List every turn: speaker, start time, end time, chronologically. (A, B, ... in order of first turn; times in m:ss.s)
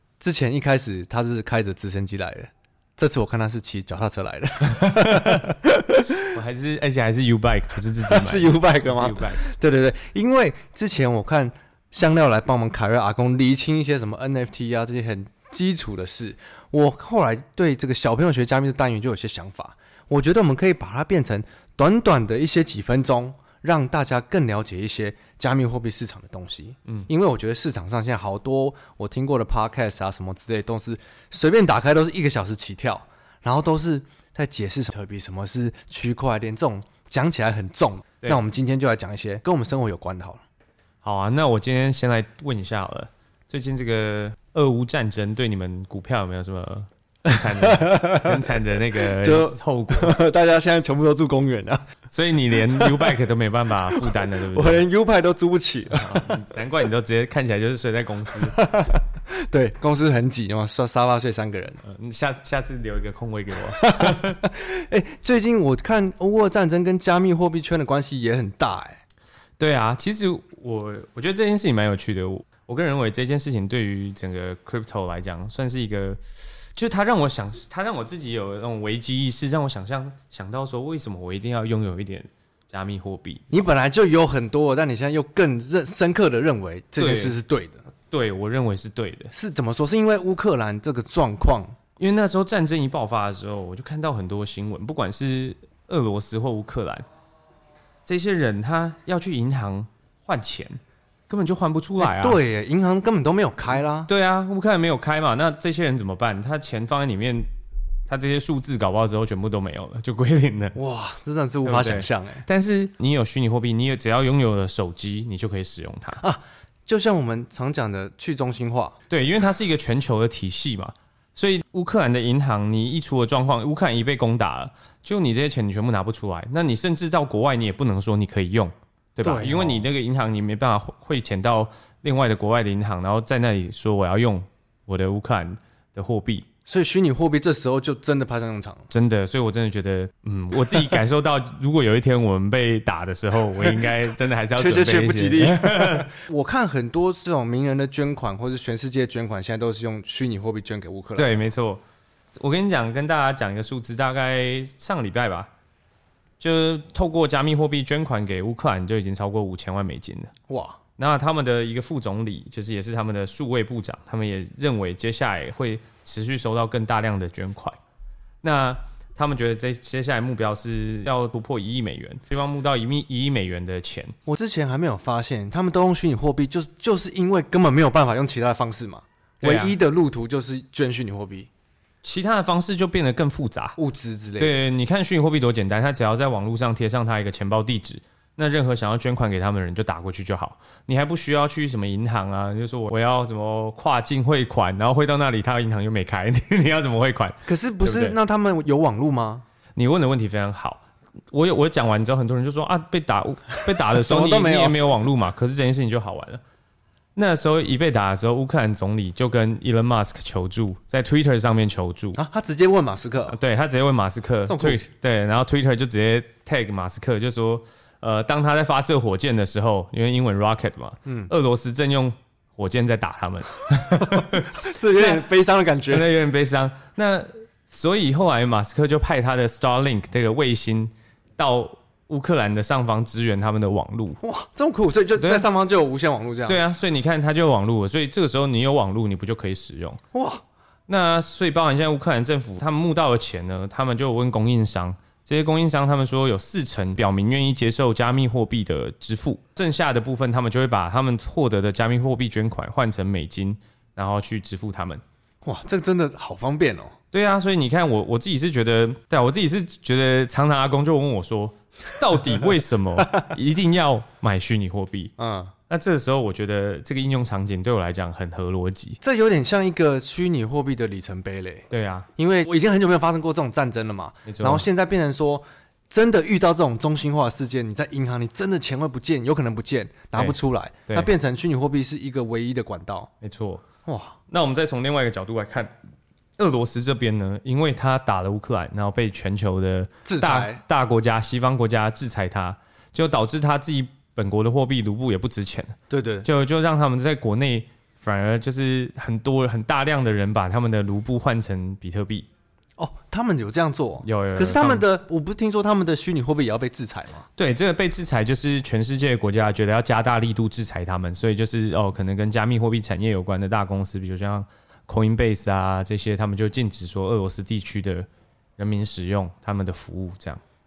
0:00.2-0:06.1 A
0:04.7-0:05.5 B
0:06.3-0:09.4 B
0:08.1-0:40.4 A
0:41.0-0:50.1 B
0:47.6-0:48.4 A
0:49.0-0:51.8 A
0:52.1-0:54.8 B
0:52.6-0:53.2 A
0:54.0-0:56.4 A
0:55.9-0:58.6 B
0:58.5-1:01.8 A
1:01.8-1:04.4 B
1:03.8-1:09.0 A
1:09.6-1:16.2 B
1:16.7-1:23.5 B
1:23.5-1:27.8 A
1:27.0-1:27.4 B
1:28.1-1:29.3 B
1:29.3-1:31.7 A
1:32.0-1:37.0 B
1:38.0-1:42.4 B
1:42.0-1:44.1 A
1:44.0-1:47.5 B
1:48.1-1:50.8 B
1:50.7-1:52.4 A
1:51.6-1:56.2 B
1:56.2-1:59.0 A
1:59.1-2:16.5 B
2:09.2-2:09.8 A
2:16.7-2:18.9 A
2:18.9-2:26.1 B
2:24.6-2:31.3 A
2:31.2-2:31.8 B
2:32.3-2:35.5 B
2:36.4-2:40.3 B
2:40.5-2:40.8 A
2:41.0-2:47.8 B
2:48.4-2:54.1 B
2:54.2-3:01.5 A
2:59.4-2:59.8 B
3:02.0-3:03.8 B
3:03.8-3:04.6 A
3:04.4-3:18.2 B
3:17.4-3:19.4 A
3:19.8-3:26.4 B
3:23.9-3:24.8 A
3:27.2-3:32.2 B
3:32.1-3:33.4 A
3:33.3-3:45.3 B
3:34.5-3:34.8 A
3:41.0-3:41.3 A
3:44.0-3:46.1 A
3:45.9-3:54.2 B
3:54.2-3:56.6 A
3:55.2-3:55.5 B
3:56.4-4:00.0 B
4:00.1-4:00.4 A
4:00.9-4:15.0 B
4:15.4-4:16.9 A
4:17.1-4:25.1 B
4:25.2-4:25.5 A
4:25.7-4:29.0 B
4:29.0-4:31.6 A
4:31.7-4:32.1 B
4:32.2-4:43.1 A
4:34.2-4:34.6 B
4:43.2-4:43.6 B
4:43.8-4:44.2 A
4:44.3-4:45.7 B
4:46.4-5:02.3 B
4:50.0-4:50.6 A
4:55.9-4:56.3 A
5:02.8-5:07.2 A
5:04.0-5:04.8 B
5:07.4-5:18.1 B
5:18.6-5:20.4 B